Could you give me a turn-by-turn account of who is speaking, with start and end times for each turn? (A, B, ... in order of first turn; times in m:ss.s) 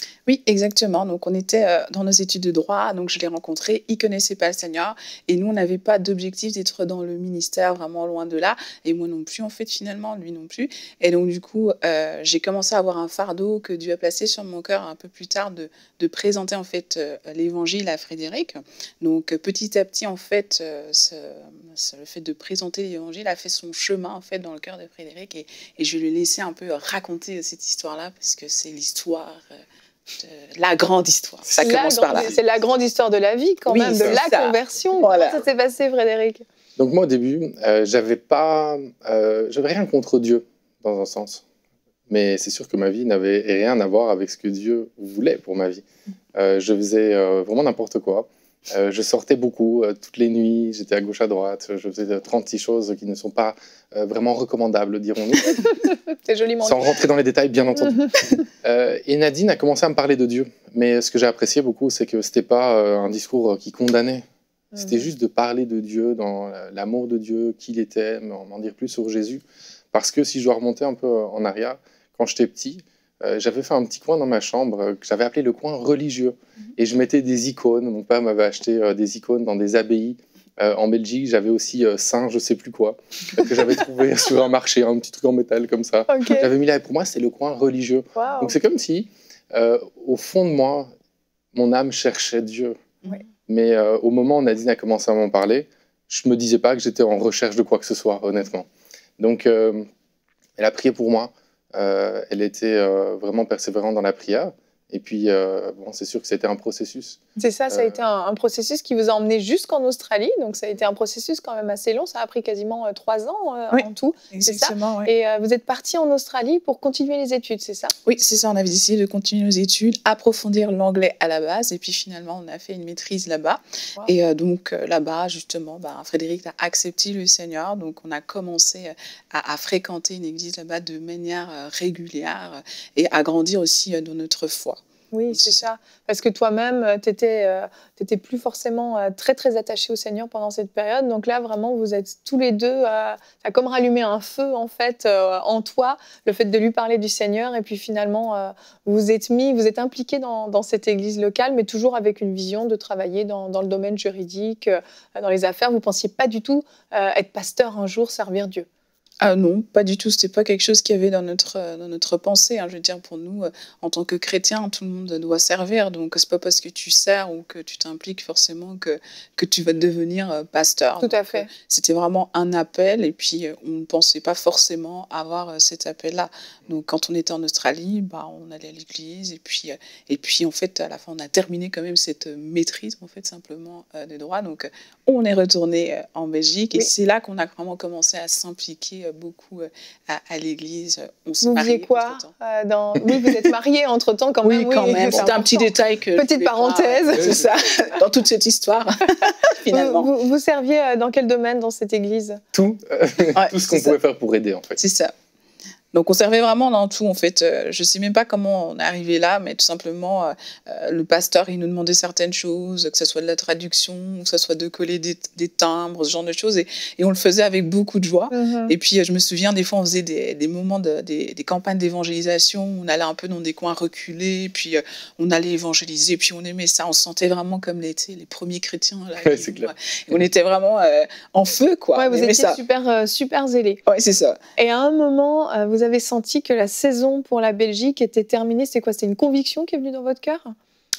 0:00.3-0:29.4 A
0:30.1-0:32.4 A
0:31.6-0:36.4 B
0:31.6-0:32.3 C
0:33.7-0:35.4 A
0:36.8-0:41.4 C
0:42.1-0:45.8 C
0:46.3-0:55.8 C
0:56.2-0:56.9 B
0:56.6-0:58.1 C
0:57.8-0:58.3 B
0:58.6-1:04.2 C
1:04.7-1:05.0 B
1:04.8-1:30.9 C
1:26.1-1:26.5 B
1:28.1-1:28.6 B
1:31.5-1:32.8 C
1:33.5-1:38.7 C
1:39.2-1:39.8 C
1:40.6-1:48.0 C
1:47.4-1:57.9 B
1:53.7-1:55.1 A
1:58.0-2:14.8 A
2:15.1-2:38.6 B
2:15.3-2:15.6 A
2:39.2-3:12.3 A
2:51.0-2:51.5 B
3:11.4-3:17.4 B
3:14.4-3:20.1 A
3:17.1-3:17.5 C
3:19.7-3:22.4 B
3:22.5-3:24.8 C
3:23.3-3:24.0 A
3:24.8-3:25.1 A
3:25.9-3:52.6 A
3:38.3-3:38.7 B
3:49.2-3:49.7 C
3:51.9-3:53.8 B
3:53.9-3:54.4 A
3:54.6-4:00.5 B